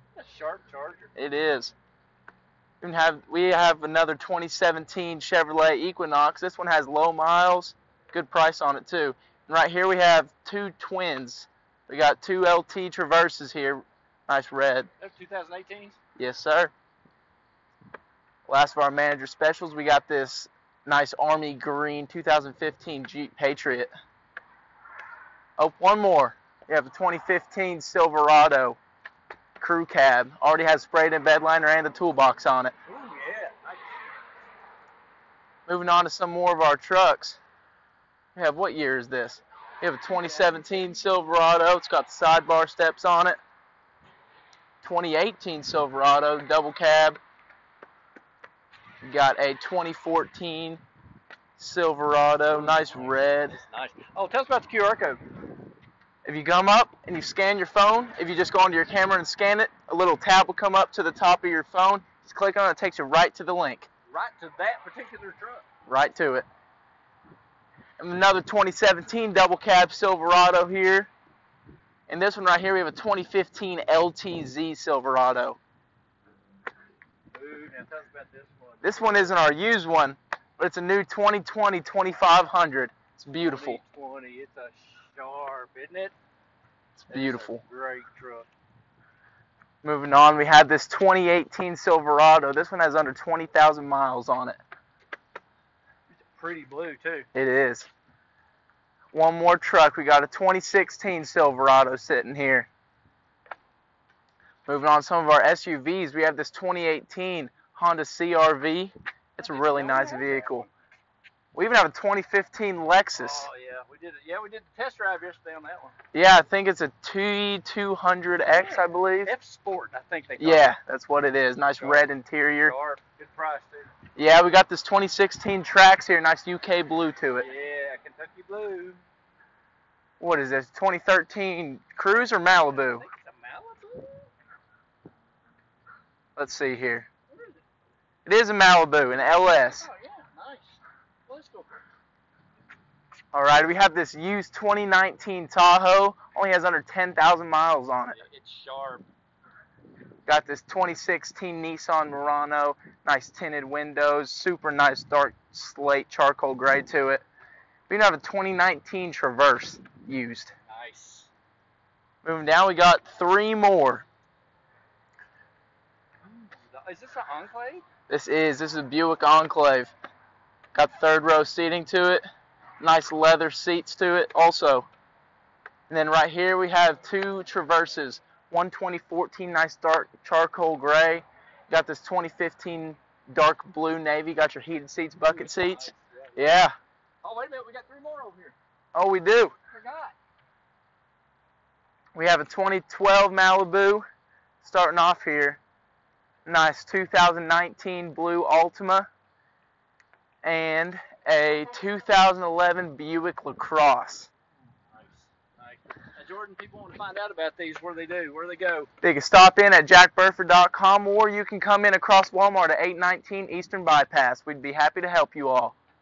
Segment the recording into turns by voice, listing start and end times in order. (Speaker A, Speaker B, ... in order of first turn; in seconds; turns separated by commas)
Speaker A: 0.2-1.1, Speaker B: 1.2-1.7, Speaker B: 2.8-14.9, Speaker A: 15.0-16.0, Speaker B: 16.2-16.7, Speaker B: 18.5-23.9, Speaker B: 25.6-28.8, Speaker B: 29.6-32.7, Speaker A: 32.9-33.9, Speaker B: 35.7-37.4, Speaker B: 38.4-43.4, Speaker A: 40.1-40.7, Speaker B: 44.8-47.2, Speaker B: 49.1-50.8, Speaker B: 51.6-53.6, Speaker A: 52.5-55.2, Speaker B: 56.2-63.9, Speaker A: 64.1-65.7, Speaker B: 65.9-66.5, Speaker B: 68.0-71.1, Speaker B: 72.1-75.6, Speaker A: 77.3-79.3, Speaker B: 78.8-83.8, Speaker A: 83.4-86.1, Speaker B: 87.0-87.6, Speaker A: 87.1-88.5, Speaker B: 89.8-94.6, Speaker A: 96.2-97.3, Speaker B: 97.3-97.9, Speaker B: 99.1-102.7, Speaker B: 104.7-110.7, Speaker A: 109.4-110.7, Speaker B: 111.5-113.5, Speaker A: 113.2-116.0, Speaker B: 116.1-119.3, Speaker A: 118.5-120.8, Speaker B: 120.4-122.7, Speaker A: 121.8-122.0, Speaker A: 122.6-123.9, Speaker B: 124.2-127.5, Speaker A: 127.4-129.0, Speaker B: 130.2-133.1, Speaker A: 132.4-134.3, Speaker B: 136.4-137.1, Speaker A: 137.3-137.6, Speaker B: 138.3-139.9, Speaker A: 139.7-141.8, Speaker B: 143.3-148.2, Speaker A: 148.1-149.1, Speaker B: 150.3-157.2, Speaker B: 157.9-160.5, Speaker A: 160.7-161.3, Speaker B: 162.2-164.1, Speaker A: 166.2-167.8, Speaker B: 168.1-169.9, Speaker B: 170.7-172.2, Speaker B: 172.8-174.9, Speaker B: 175.9-186.8, Speaker A: 185.2-186.4, Speaker A: 187.2-188.6, Speaker B: 188.9-189.6, Speaker A: 189.7-190.2, Speaker B: 192.2-194.0, Speaker B: 194.6-195.6, Speaker B: 196.5-199.1, Speaker B: 200.4-204.3, Speaker A: 204.9-208.9, Speaker B: 209.0-215.8